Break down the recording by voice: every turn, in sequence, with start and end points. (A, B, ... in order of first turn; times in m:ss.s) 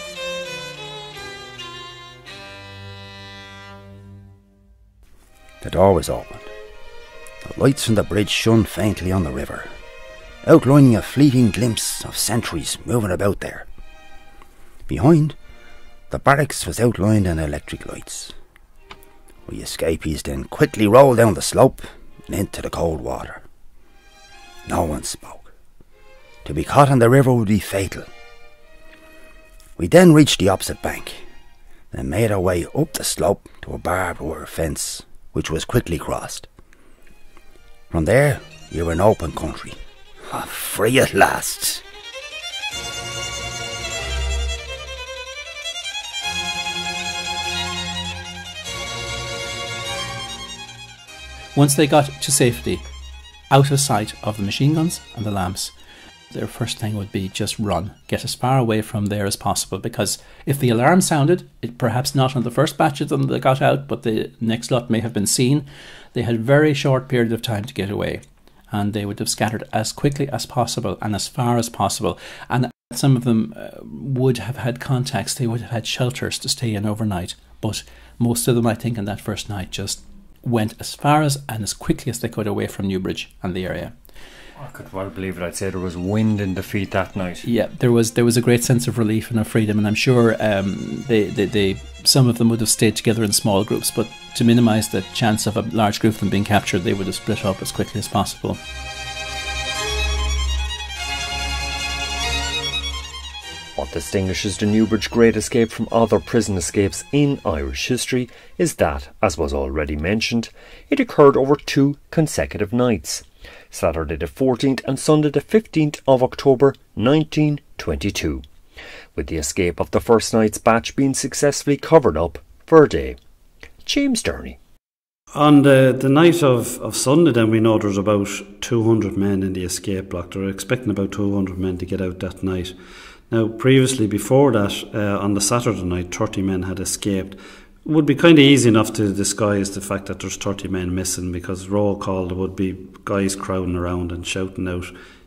0:05.6-0:06.5 A
0:07.4-0:09.7 A
0:10.4-0:13.6 A
0:14.9-0:15.4 A
0:16.1-0:18.3 A
0:19.5-0:23.4 A
0:24.6-0:25.5 A
0:26.4-0:28.1 A
0:29.8-0:31.2 A
0:31.9-0:36.5 A
0:37.9-0:41.8 A
0:51.5-0:52.8 B
0:53.5-0:55.7 B
0:56.3-1:23.9 B
1:24.6-1:27.5 C
1:27.4-1:38.6 B
1:43.8-1:58.4 C
1:59.1-2:03.2 C
2:03.8-2:04.6 C
2:05.3-2:12.7 D
2:13.3-2:24.9 D